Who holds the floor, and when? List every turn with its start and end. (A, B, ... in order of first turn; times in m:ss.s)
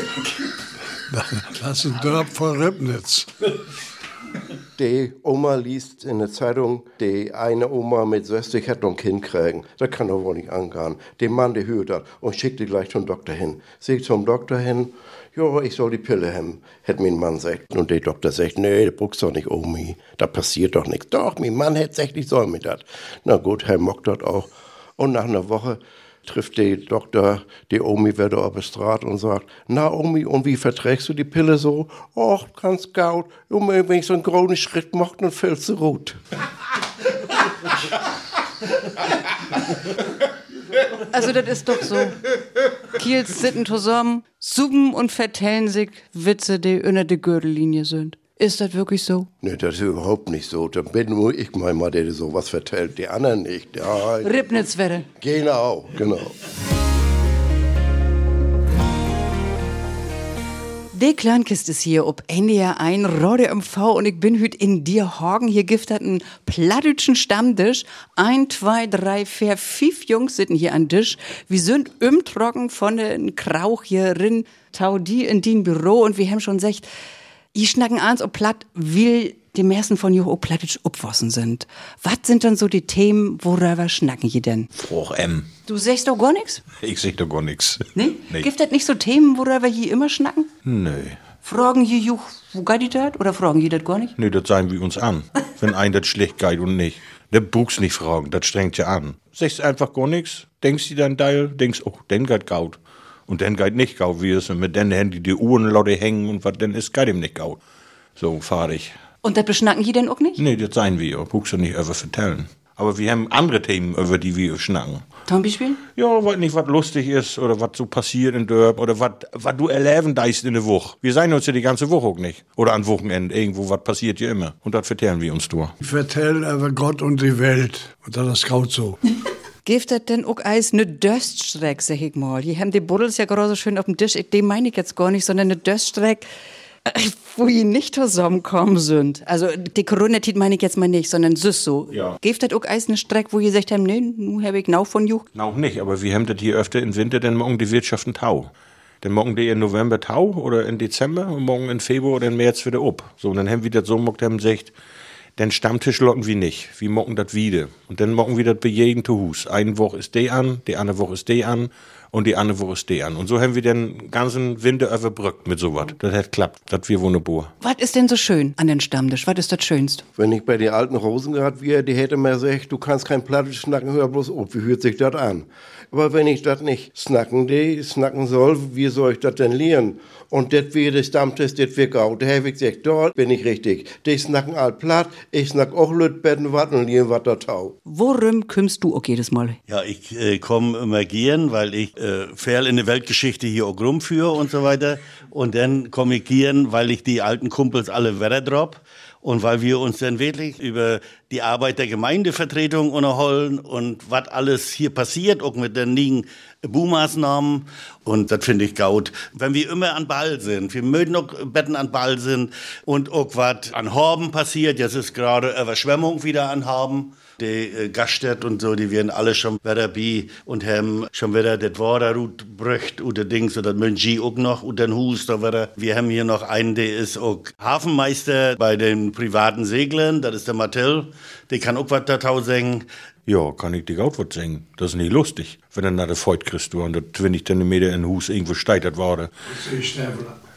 0:01.1-0:03.3 A
0:04.8-0:36.2 B
0:41.0-0:42.2 C
0:42.9-0:49.3 C
0:49.4-0:54.4 B
0:54.2-0:55.1 C
0:55.2-0:56.4 B
1:00.9-1:16.9 C
1:17.5-1:24.7 C
1:24.8-1:25.5 D
1:25.7-1:26.6 C
1:26.8-1:28.5 D
1:27.9-1:30.5 C
1:30.6-1:31.2 D
1:31.4-1:34.1 C
1:34.2-1:47.6 D
1:48.2-1:48.9 D
1:49.2-1:50.4 C
1:50.4-1:55.0 D
1:55.3-1:55.8 C
1:56.0-2:05.7 D
2:05.8-2:09.0 A
2:09.6-2:16.3 C
2:16.8-2:25.2 C
2:21.9-2:22.2 D
2:25.3-2:28.5 D
2:29.0-2:34.7 D
2:35.4-2:47.5 D
2:47.6-2:50.0 C
2:50.2-3:07.8 B
3:07.8-3:09.6 C
3:09.7-3:52.8 E
3:53.3-3:59.3 D
3:59.5-4:00.4 A